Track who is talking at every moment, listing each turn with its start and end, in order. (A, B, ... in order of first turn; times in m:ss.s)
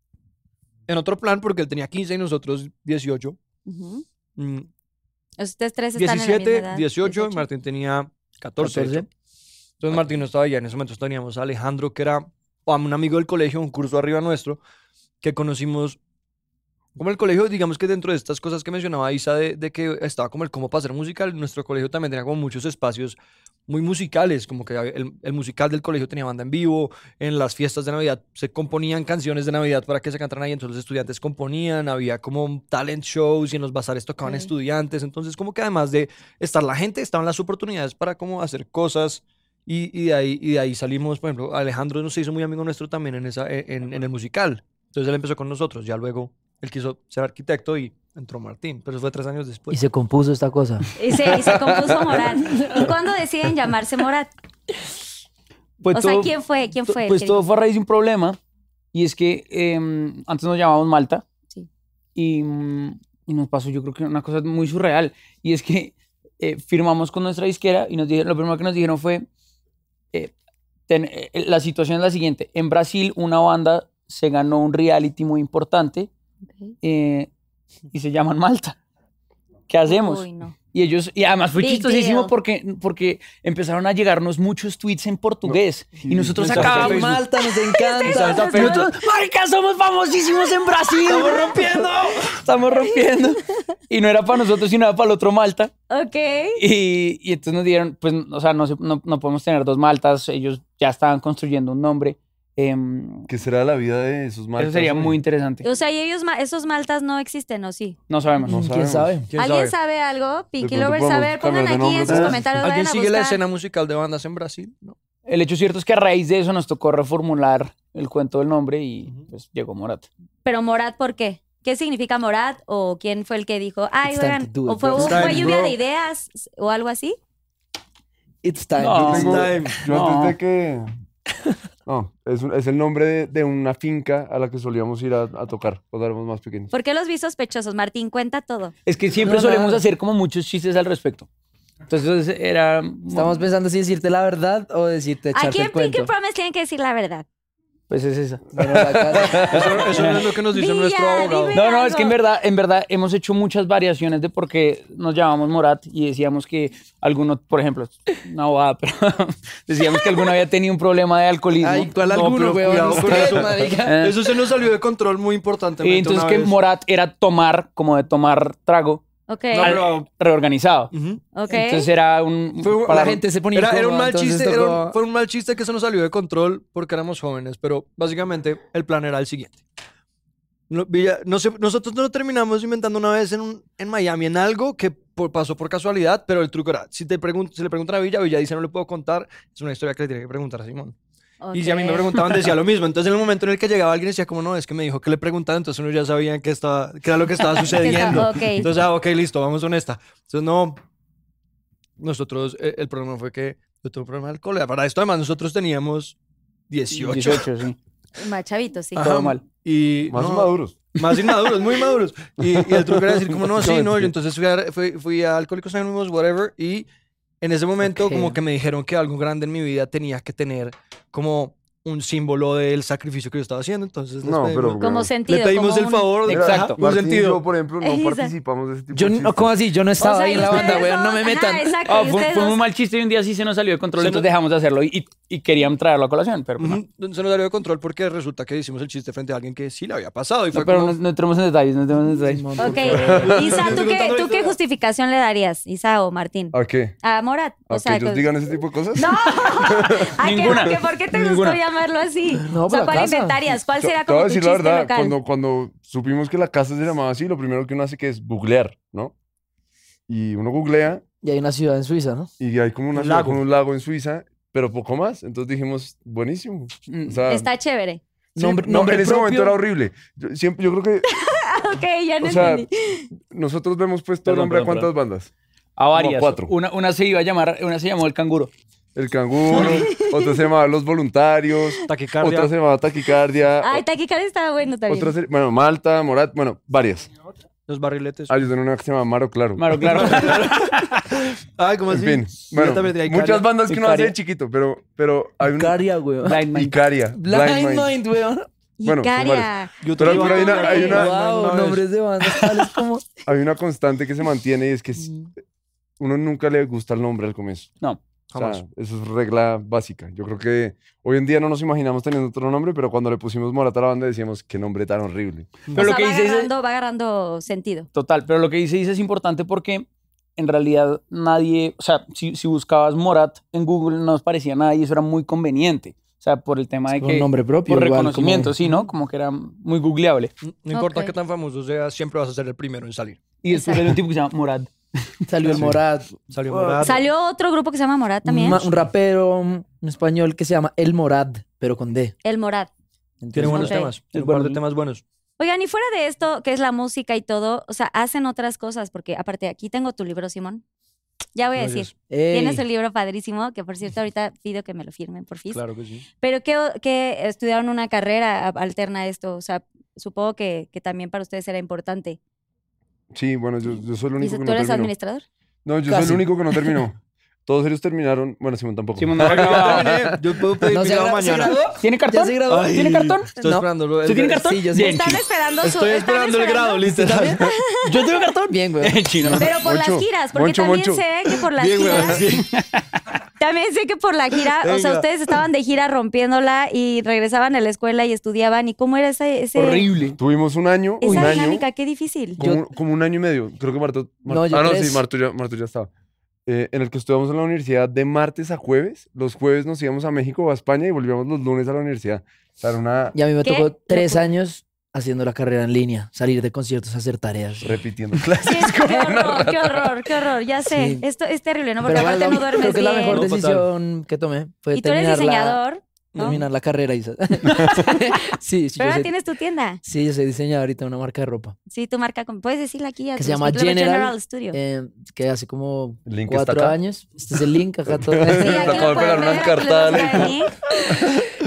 0:00.9-0:03.4 A
0:03.7-0:04.0 B
0:04.4-0:04.7 A
0:05.4-0:07.5 B
0:06.0-0:09.1 A
0:08.6-0:09.1 C
0:09.8-0:14.6 A
0:15.2-0:16.0 A
0:17.0-0:49.8 A
0:34.2-0:34.5 B
0:49.7-0:50.9 C
0:51.0-0:54.3 B
0:51.5-0:52.2 D
0:55.8-0:56.3 E
0:55.9-0:57.4 B
0:56.9-0:58.4 E
0:58.9-1:01.2 E
1:02.2-1:09.2 E
1:10.9-1:16.1 E
1:16.8-1:17.3 E
1:17.9-1:18.8 E
1:19.7-1:27.2 E
1:19.9-1:20.6 B
1:21.6-1:22.3 B
1:26.0-1:27.2 A
1:26.5-1:28.7 C
1:27.6-1:28.8 B
1:28.0-1:28.9 A
1:28.6-1:35.7 E
1:31.0-1:32.4 A
1:35.9-1:36.6 B
1:36.6-1:43.3 E
1:43.3-1:45.2 D
1:44.6-1:45.6 E
1:45.6-1:48.0 B
1:48.1-1:48.6 E
1:48.4-1:49.3 C
1:48.5-1:49.2 D
1:49.3-1:49.7 A
1:49.4-1:53.4 B
1:50.6-1:52.6 D
1:52.1-1:55.0 A
1:55.3-2:00.1 E
2:00.4-2:07.2 B
2:04.1-2:05.5 C
2:05.0-2:05.7 A
2:08.4-2:09.5 C
2:08.8-2:10.4 E
2:09.0-2:10.9 D
2:09.1-2:09.8 A
2:11.9-2:16.7 D
2:16.7-2:18.7 B
2:18.9-2:21.3 E
2:19.2-2:19.8 C
2:21.9-2:23.4 E
2:23.1-2:26.1 C
2:25.3-2:27.2 B
2:27.9-2:28.5 E
2:28.6-2:29.9 C
2:28.6-2:29.8 D
2:29.3-2:31.6 A
2:29.9-2:30.3 E
2:30.5-2:32.2 B
2:31.5-2:41.9 E
2:41.6-2:44.0 C
2:42.0-2:46.6 A
2:43.8-2:44.2 E
2:45.8-2:49.0 E
2:49.3-2:49.8 B
2:49.5-2:50.1 A
2:49.6-2:50.9 E
2:50.9-2:51.2 A
2:51.3-2:51.9 B
2:51.5-2:53.2 E
2:52.6-2:55.0 C
2:52.8-2:59.6 A
3:00.7-3:11.0 A
3:11.4-3:12.2 B
3:11.5-3:20.8 A
3:17.8-3:18.7 B
3:22.0-3:26.2 A
3:26.7-3:27.5 A
3:26.9-3:27.8 E
3:28.2-3:29.1 B
3:29.0-3:29.4 E
3:29.0-3:36.9 A
3:30.1-3:30.8 D
3:32.4-3:34.1 D
3:37.4-3:47.4 A
3:37.9-3:38.4 C
3:44.2-3:45.1 D
3:44.8-3:46.2 B
3:46.3-3:49.5 D
3:46.3-3:46.8 E
3:47.8-3:48.3 B
3:48.9-3:51.8 C
3:50.0-3:52.6 B
3:51.9-3:56.8 E
3:54.0-3:54.3 A
3:56.6-4:01.0 A
4:00.5-4:02.7 E
4:02.1-4:03.4 C
4:02.6-4:08.3 B
4:02.9-4:03.7 D
4:03.0-4:04.6 A
4:06.5-4:07.0 D
4:07.7-4:10.6 D
4:09.0-4:15.2 B
4:10.2-4:11.6 E
4:12.5-4:13.4 C
4:13.8-4:19.1 D
4:20.1-4:21.0 D
4:21.2-4:22.3 C
4:22.4-4:27.5 D
4:23.0-4:23.4 A
4:26.9-4:27.2 E
4:27.3-4:28.0 B
4:28.4-4:29.6 C
4:28.4-4:31.1 D
4:31.1-4:33.1 B
4:32.2-4:32.7 D
4:33.2-4:35.3 D
4:34.2-4:34.9 E
4:35.8-4:38.5 E
4:35.9-4:36.5 D
4:39.0-4:43.8 D
4:39.5-4:40.3 B
4:41.9-4:42.5 A
4:43.6-4:45.2 B
4:44.9-4:47.1 D
4:47.7-4:48.3 A
4:48.3-4:50.3 D
4:49.6-4:51.1 E
4:49.9-4:53.5 A
4:51.9-4:55.8 D
4:53.7-4:54.0 C
4:53.8-4:54.1 E
4:55.5-4:56.4 C
4:56.2-4:56.8 E
4:56.5-4:57.9 D
4:57.2-4:58.5 C
4:58.8-5:01.1 B
4:58.8-5:01.1 D
4:59.8-5:01.8 A
5:00.9-5:03.1 C
5:03.3-5:05.2 D
5:06.0-5:07.7 D
5:08.3-5:08.6 A
5:08.4-5:15.6 D
5:15.7-5:16.5 E
5:15.7-5:17.9 B
5:17.9-5:30.3 E
5:26.9-5:28.6 C
5:30.4-5:33.2 A
5:30.7-5:31.1 B
5:33.4-5:34.7 E
5:33.5-5:33.9 B
5:35.3-5:36.2 C
5:36.3-5:37.0 A
5:36.8-5:38.6 B
5:38.2-5:42.2 C
5:42.2-5:42.7 B
5:43.2-5:43.8 C
5:43.3-5:45.0 A
5:43.4-5:43.9 B
5:44.1-5:44.6 E
5:45.4-5:50.6 B
5:51.4-5:55.6 B
5:51.6-5:51.9 A
5:52.1-5:52.6 C
5:55.5-5:56.0 A
5:56.2-6:02.2 B
6:03.1-6:04.9 D
6:04.2-6:05.2 B
6:05.6-6:10.2 D
6:05.9-6:06.8 C
6:09.0-6:10.1 E
6:09.2-6:11.6 A
6:10.6-6:12.8 C
6:11.8-6:13.4 E
6:12.5-6:14.5 A
6:13.4-6:13.7 C
6:14.0-6:15.2 E
6:14.3-6:15.2 C
6:14.7-6:18.1 B
6:15.6-6:17.4 A
6:16.9-6:17.5 C
6:17.8-6:19.5 E
6:18.5-6:19.0 C
6:19.2-6:21.0 D
6:19.4-6:22.2 B
6:21.5-6:22.5 A
6:22.4-6:22.8 E
6:23.4-6:29.9 B
6:24.6-6:25.1 A
6:29.6-6:30.2 E
6:30.2-6:31.6 D
6:31.0-6:32.4 B
6:31.1-6:31.4 C
6:32.4-6:35.9 D
6:34.3-6:35.0 C
6:36.5-6:43.2 D
6:43.1-6:47.8 C
6:43.4-6:44.2 B
6:47.6-6:50.1 D
6:48.4-6:53.2 B
6:50.7-6:51.0 C
6:51.8-6:55.6 C
6:53.0-6:53.7 A
6:54.7-6:56.4 B
6:56.1-6:56.4 A
6:56.2-6:59.1 C
6:58.8-6:59.8 B
6:59.8-7:01.6 C
7:01.7-7:04.6 B
7:03.2-7:09.2 C
7:06.1-7:06.8 D
7:07.9-7:10.4 D
7:08.4-7:10.6 B